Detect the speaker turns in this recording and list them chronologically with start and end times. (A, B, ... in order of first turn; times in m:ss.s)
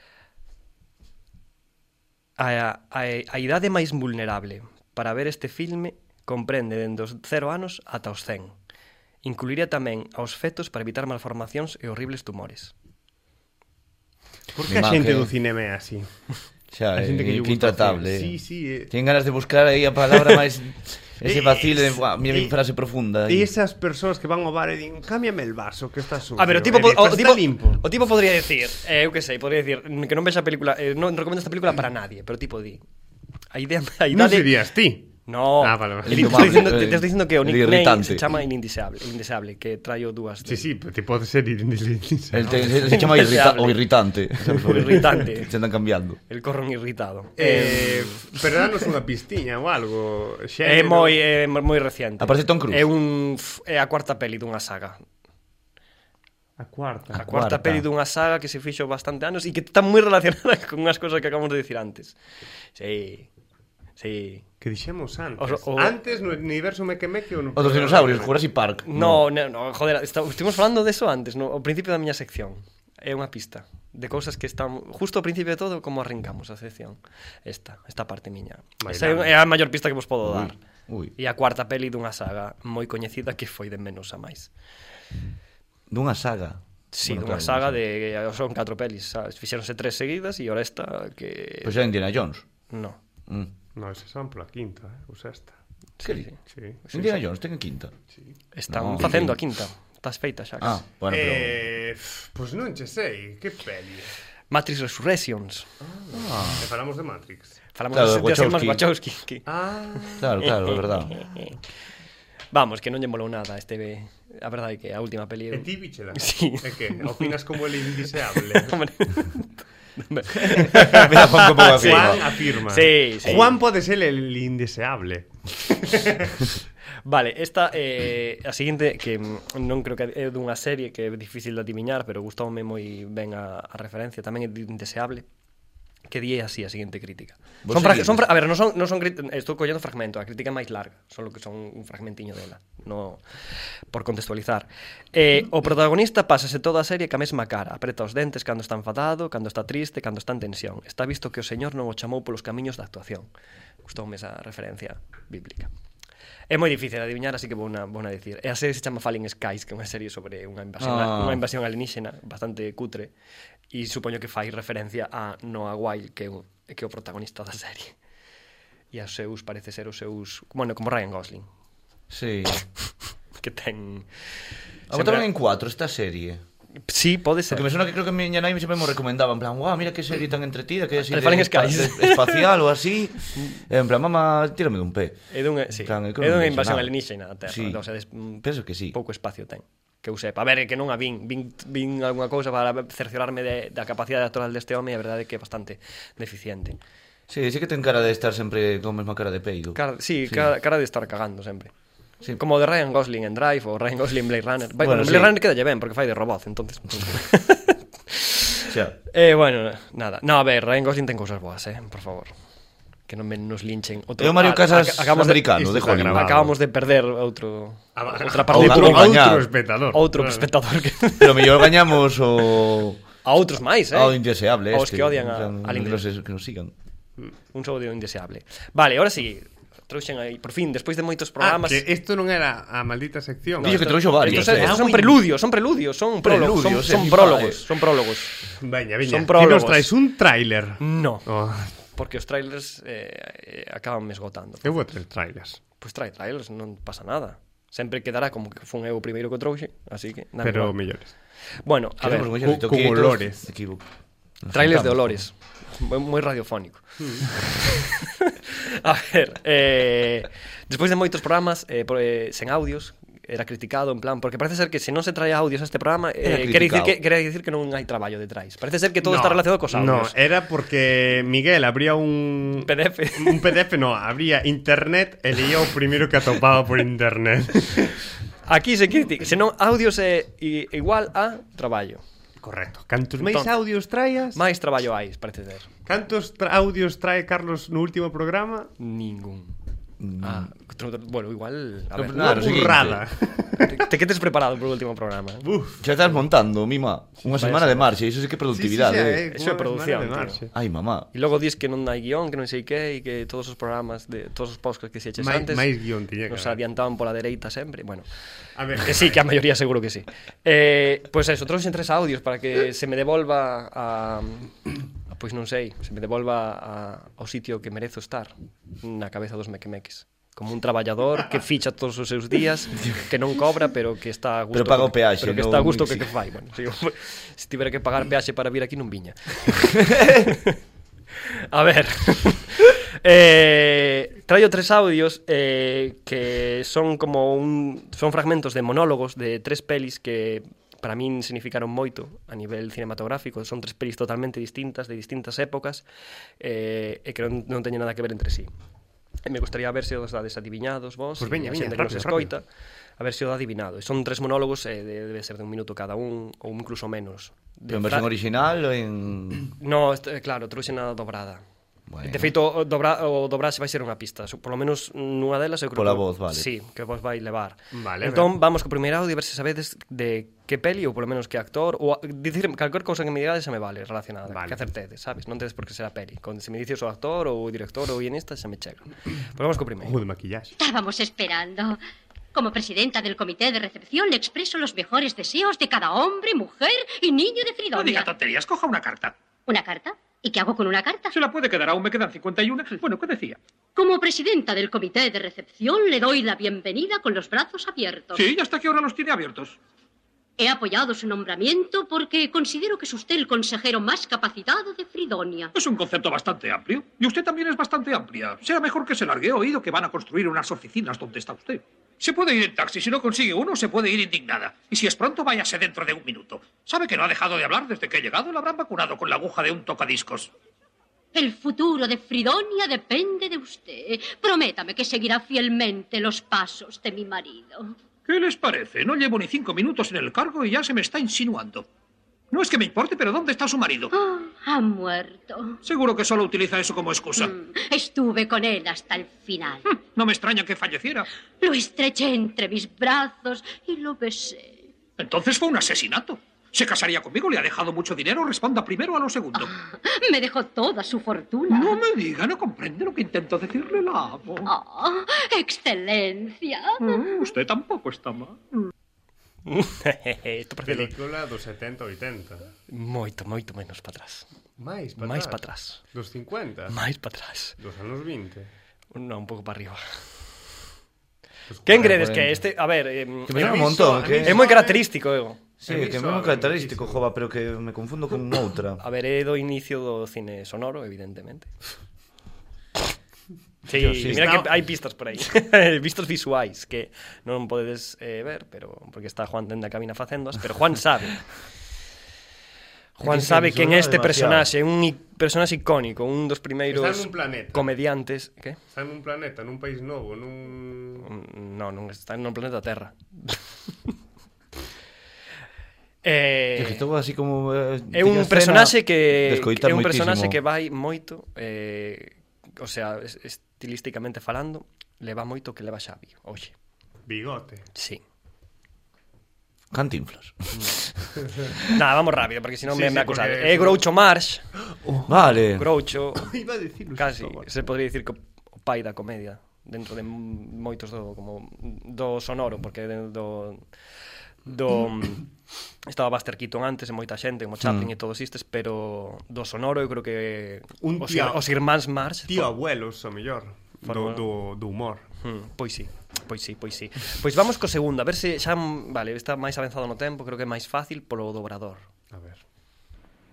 0:02.4-0:08.6 A
0:09.2-0:12.7 A
0:14.5-0:16.1 B
0:14.7-0:15.3 C
0:16.7-0:18.4 C
0:17.0-0:18.9 B
0:18.9-0:23.5 C
0:21.2-0:22.5 B
0:23.3-0:27.8 B
0:26.4-0:32.8 A
0:33.5-0:34.5 A
0:34.1-0:36.7 B
0:35.3-0:40.6 A
0:36.0-0:38.4 C
0:40.4-0:43.0 B
0:42.3-0:46.2 C
0:42.9-0:43.8 A
0:44.6-0:45.5 A
0:46.3-0:48.4 A
0:47.4-0:51.2 B
0:50.6-0:55.0 A
0:52.2-0:52.9 C
0:56.6-0:57.2 B
0:57.1-0:57.8 C
0:57.2-1:02.2 A
1:02.8-1:03.3 A
1:04.0-1:04.5 A
1:04.6-1:08.4 B
1:05.4-1:06.0 A
1:07.6-1:09.3 C
1:08.9-1:20.6 A
1:18.8-1:19.3 B
1:20.2-1:21.1 C
1:21.2-1:24.5 A
1:25.9-1:27.8 C
1:26.9-1:31.7 A
1:31.6-1:32.5 C
1:32.7-1:33.0 A
1:33.8-1:35.6 B
1:36.0-1:37.2 A
1:36.0-1:36.3 C
1:36.5-1:36.8 B
1:36.9-1:37.9 C
1:38.5-1:40.8 A
1:38.7-1:39.4 C
1:40.6-1:41.6 C
1:41.1-1:44.1 B
1:44.5-1:45.7 A
1:45.8-1:47.6 B
1:46.1-1:46.7 C
1:47.7-1:49.5 A
1:47.9-1:48.8 C
1:49.5-1:50.3 B
1:50.2-1:51.2 C
1:50.4-1:51.5 A
1:52.5-1:57.3 A
1:55.5-1:58.8 B
1:58.5-2:03.6 A
2:00.5-2:02.2 C
2:00.7-2:06.4 B
2:07.0-2:15.3 A
2:16.1-2:23.2 A
2:17.6-2:18.3 C
2:23.9-2:33.3 A
2:33.8-2:35.7 A
2:36.5-2:43.1 A
2:40.8-2:41.4 C
2:43.7-2:48.0 A
2:48.9-2:51.5 A
2:52.1-2:52.6 C
2:53.4-2:55.3 A
2:54.9-2:56.4 C
2:56.9-2:57.7 A
2:57.5-3:06.9 C
3:01.0-3:02.5 A
3:03.4-3:03.6 A
3:05.3-3:16.8 A
3:07.5-3:07.8 C
3:08.4-3:09.0 C
3:17.3-3:20.5 C
3:19.8-3:21.7 A
3:22.4-3:32.3 A
3:24.8-3:25.4 C
3:28.7-3:29.0 C
3:33.1-3:39.2 A
3:34.2-3:36.5 C
3:35.5-3:36.5 B
3:38.0-3:40.5 B
3:38.5-3:39.5 C
3:39.9-3:42.0 A
3:41.2-3:43.0 C
3:43.2-3:46.0 A
3:43.9-3:46.7 C
3:47.5-3:51.8 A
3:51.4-3:55.2 B
3:53.6-3:54.8 C
3:53.6-3:58.4 A
3:56.2-3:57.7 C
3:58.6-4:01.7 B
3:59.0-3:59.9 A
4:00.8-4:01.3 A
4:02.0-4:04.8 A
4:04.6-4:05.6 B
4:05.8-4:10.8 A
4:10.4-4:11.1 B
4:11.6-4:12.3 A
4:12.0-4:13.8 C
4:12.3-4:13.5 B
4:14.4-4:15.2 C
4:14.5-4:17.0 A
4:17.0-4:17.2 B
4:17.7-4:30.2 A
4:26.2-4:27.0 C
4:29.0-4:38.0 B
4:32.7-4:33.6 A
4:38.5-4:42.0 A
4:42.4-4:44.4 B
4:43.2-4:43.5 A
4:44.4-4:45.7 A
4:45.9-4:48.7 B
4:48.8-4:49.6 A
4:50.0-4:50.5 C
4:50.2-4:52.9 A
4:52.0-4:53.0 C
4:52.2-4:53.8 B
4:53.6-4:55.5 A
4:55.4-4:55.9 B
4:55.8-4:59.2 C
4:57.3-4:57.8 A
4:58.5-5:00.5 B
4:59.3-5:00.4 A
5:00.5-5:01.1 C
5:01.1-5:05.7 A
5:05.2-5:06.6 B
5:06.3-5:08.1 A
5:08.6-5:09.2 B
5:08.8-5:14.6 A
5:15.1-5:30.6 A
5:24.5-5:26.1 C
5:29.8-5:30.3 C
5:31.5-5:45.8 A
5:46.4-5:48.5 A
5:49.2-5:52.4 A
5:51.2-5:52.3 B
5:53.0-5:58.1 A
5:57.7-5:59.5 C
5:59.6-6:01.4 A
6:01.9-6:02.4 C
6:02.0-6:20.0 A
6:05.8-6:06.5 C
6:07.7-6:08.4 B
6:14.3-6:14.6 B
6:19.8-6:20.6 B
6:20.6-6:21.8 D
6:22.3-6:28.1 D
6:27.7-6:29.2 E
6:29.5-6:31.1 D
6:31.1-6:33.4 E
6:33.8-6:38.3 D
6:38.1-6:39.6 E
6:40.4-6:45.5 D
6:45.5-7:00.3 E
7:01.1-7:07.8 D
7:08.1-7:11.7 E
7:12.3-7:13.9 E
7:13.9-7:15.6 D
7:15.6-7:17.3 E
7:17.2-7:19.8 D
7:20.0-7:21.1 E
7:21.4-7:24.6 D
7:25.0-7:29.5 E
7:29.4-7:31.8 D
7:31.5-7:34.5 E
7:34.4-7:36.9 D
7:36.8-7:38.7 E
7:39.5-7:40.9 A
7:40.7-7:42.5 B
7:42.7-7:44.3 A
7:44.6-7:46.8 B
7:45.0-7:45.8 A
7:46.7-7:47.6 A
7:47.6-7:48.5 B
7:48.9-7:49.8 A
7:51.5-7:52.0 B
7:51.6-7:55.4 A
7:51.7-7:52.4 C
7:53.3-7:54.4 C
7:53.3-7:54.9 B
7:55.6-7:58.8 C
7:55.6-7:57.1 B
7:58.8-8:01.5 A
8:03.7-8:11.2 A
8:03.7-8:04.4 C
8:04.1-8:04.5 B
8:13.0-8:14.5 C
8:13.0-8:18.6 A
8:16.7-8:17.7 B
8:18.7-8:21.1 B
8:21.0-8:23.4 A
8:26.0-8:26.8 A
8:26.6-8:30.4 C
8:27.9-8:36.5 A
8:37.1-8:37.7 B
8:37.8-8:38.0 A
8:39.7-8:40.9 C
8:41.7-8:44.5 A
8:42.6-8:43.9 B
8:44.8-8:45.1 B
8:45.1-8:45.7 C
8:45.6-8:46.3 A
8:46.2-8:47.6 B
8:47.0-8:53.6 A
8:54.5-8:55.3 A
8:55.9-9:02.5 A
8:57.6-8:57.9 C
9:00.8-9:01.5 B
9:02.3-9:05.0 B
9:03.8-9:04.3 A
9:05.2-9:11.8 A
9:12.1-9:12.4 B